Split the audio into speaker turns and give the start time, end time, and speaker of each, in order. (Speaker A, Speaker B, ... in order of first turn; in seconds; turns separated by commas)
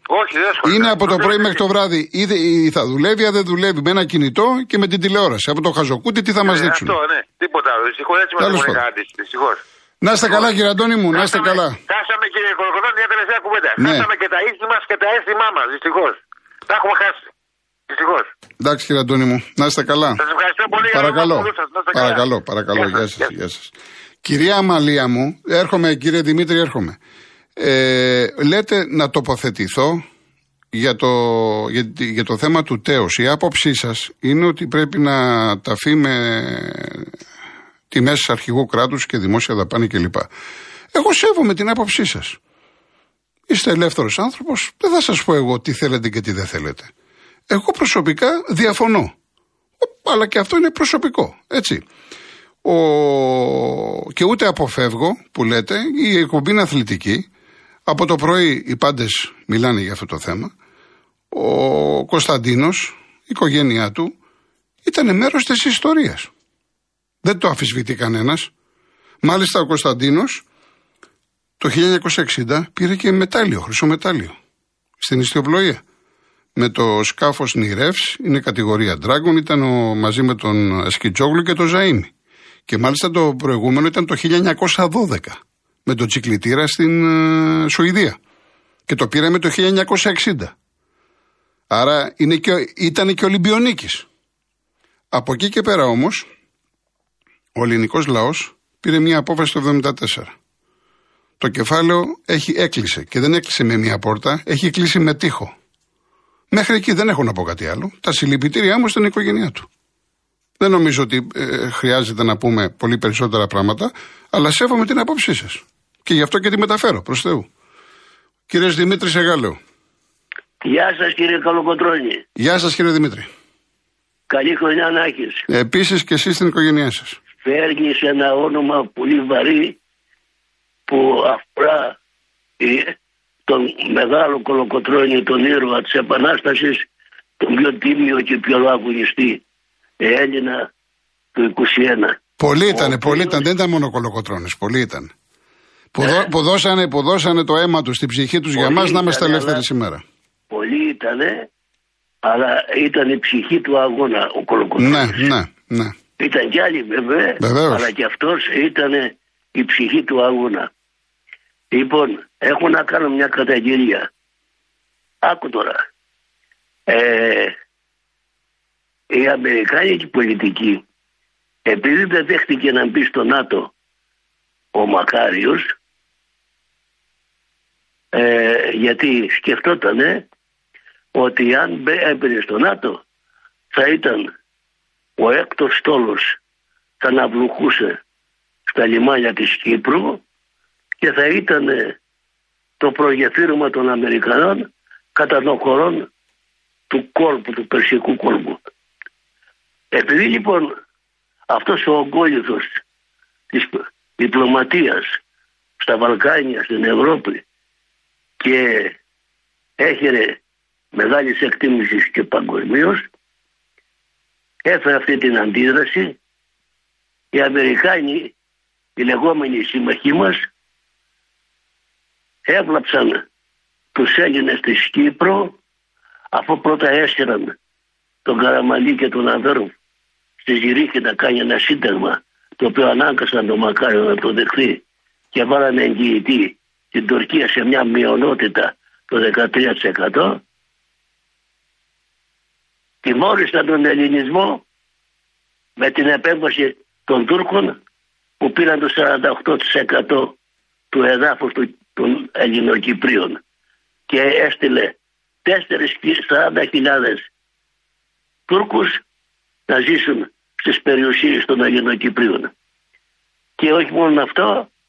Speaker A: 0.1-1.6, Speaker B: 0.6-7.0, Speaker A: 6.4-9.6, Speaker B: 8.4-8.8, Speaker B: 10.0-11.8, Speaker A: 11.1-17.3, Speaker B: 13.8-14.1, Speaker A: 17.9-18.3, Speaker B: 18.6-20.2, Speaker A: 20.2-22.2, Speaker B: 20.8-23.7, Speaker A: 22.8-23.3, Speaker B: 24.2-27.0, Speaker B: 27.6-30.0, Speaker B: 30.7-37.2, Speaker B: 37.9-40.3, Speaker B: 40.9-42.4, Speaker B: 43.5-46.9, Speaker B: 47.5-49.1, Speaker B: 49.8-51.8, Speaker B: 52.6-57.3, Speaker B: 57.9-60.5, Speaker B: 61.3-64.1, Speaker B: 64.8-66.3, Speaker B: 67.2-68.5, Speaker B: 69.2-70.4, Speaker B: 71.6-74.4, Speaker B: 75.0-75.8, Speaker B: 76.6-82.1, Speaker B: 82.7-88.2, Speaker B: 88.9-90.5, Speaker B: 91.7-94.1, Speaker B: 95.1-96.3, Speaker B: 97.5-100.3, Speaker B: 101.4-105.5, Speaker B: 106.5-109.7, Speaker B: 110.6-117.5, Speaker B: 118.5-119.6, Speaker C: 120.6-122.2, Speaker B: 122.4-123.3, Speaker C: 124.3-125.5, Speaker B: 125.5-127.2, Speaker C: 127.4-129.8, Speaker C: 130.9-132.0, Speaker C: 132.6-133.0, Speaker C: 133.5-136.9, Speaker C: 137.4-139.4, Speaker C: 140.0-140.7, Speaker C: 141.3-142.2, Speaker B: 142.4-145.1, Speaker C: 142.7-143.4, Speaker B: 145.9-150.0, Speaker C: 148.6-149.6, Speaker C: 150.5-151.5, Speaker C: 152.2-155.3, Speaker B: 154.8-156.0, Speaker C: 156.2-160.7, Speaker B: 157.4-157.9, Speaker C: 161.7-164.1, Speaker C: 165.2-165.8, Speaker C: 166.9-167.6, Speaker C: 169.1-170.8, Speaker C: 171.7-173.7, Speaker C: 174.7-175.8, Speaker C: 178.1-180.2, Speaker C: 181.1-183.0, Speaker C: 183.7-184.3, Speaker C: 185.2-186.4, Speaker C: 187.0-188.0, Speaker C: 188.7-190.2, Speaker C: 191.0-192.0, Speaker C: 192.8-196.1, Speaker C: 196.9-198.6, Speaker C: 199.9-200.7, Speaker C: 201.5-202.8, Speaker C: 203.5-205.2, Speaker C: 205.8-207.4, Speaker C: 208.4-209.0, Speaker C: 209.8-210.4, Speaker C: 210.9-213.1, Speaker C: 214.7-216.2, Speaker C: 217.3-218.3, Speaker C: 219.0-220.5, Speaker C: 222.5-223.2, Speaker C: 223.9-225.6, Speaker C: 226.3-227.6, Speaker C: 228.2-229.7, Speaker C: 230.4-240.4, Speaker C: 243.0-244.6, Speaker C: 245.8-247.8, Speaker C: 248.4-250.4, Speaker C: 250.9-253.4, Speaker C: 254.1-257.3, Speaker C: 258.5-259.0, Speaker C: 259.7-262.5, Speaker C: 263.6-264.7